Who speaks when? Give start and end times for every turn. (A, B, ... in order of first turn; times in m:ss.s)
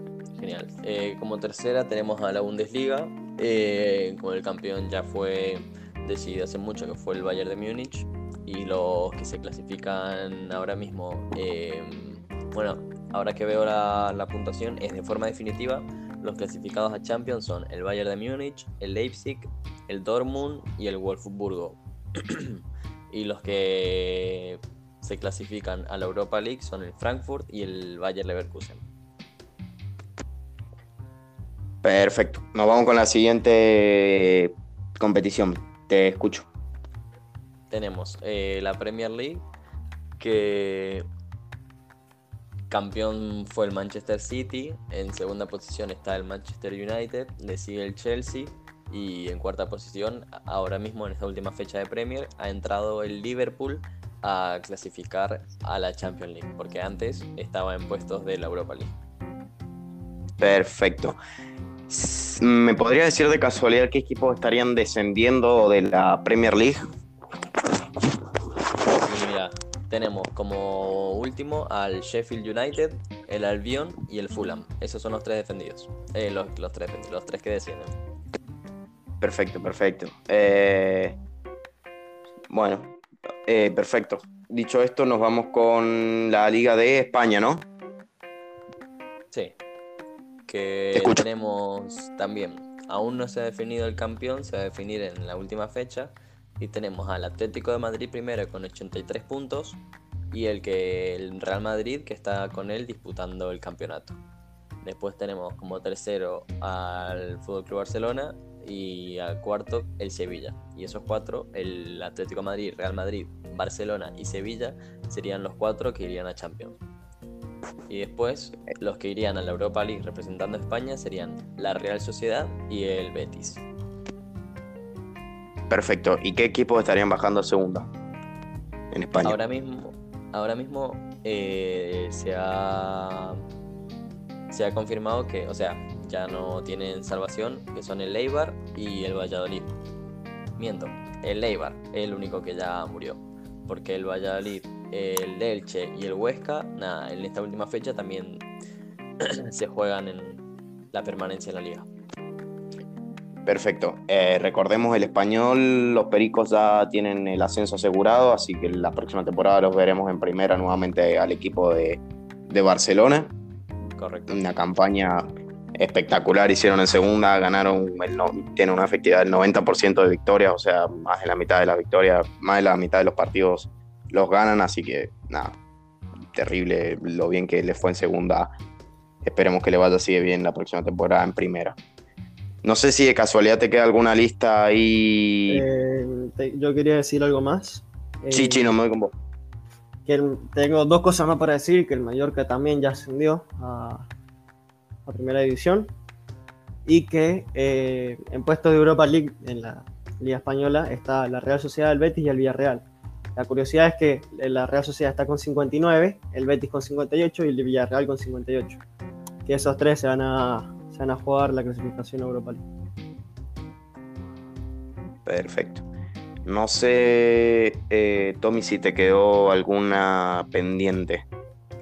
0:00.4-0:28.8 A
0:31.8-0:36.5 B
0:37.7-0:39.4 A
0:40.2-0:41.1 A
0:42.7-0:58.9 A
1:00.4-1:01.2 B
1:01.9-1:06.8 B
1:09.0-1:17.9 A
1:19.2-1:21.2 B
1:22.5-1:27.6 B
1:30.5-1:39.8 A
1:30.9-1:31.2 B
1:40.3-1:44.2 A
1:44.8-1:56.8 A
1:57.9-2:03.6 A
2:05.7-2:07.9 B
2:08.9-2:09.4 B
2:09.2-2:13.4 A
2:14.5-2:19.7 A
2:20.6-2:28.4 A
2:29.2-2:30.4 A
2:30.9-2:31.9 A
2:33.4-2:43.3 B
2:44.0-2:44.4 A
2:44.3-2:45.2 B
2:45.8-2:55.6 B
2:56.3-2:58.5 B
2:59.2-3:01.8 B
3:02.6-3:05.6 B
3:05.5-3:08.7 C
3:08.3-3:09.1 B
3:10.0-3:14.1 C
3:15.0-3:15.9 C
3:16.8-3:22.8 C
3:23.4-3:28.8 C
3:29.4-3:32.6 C
3:35.2-3:35.8 B
3:36.4-3:41.2 B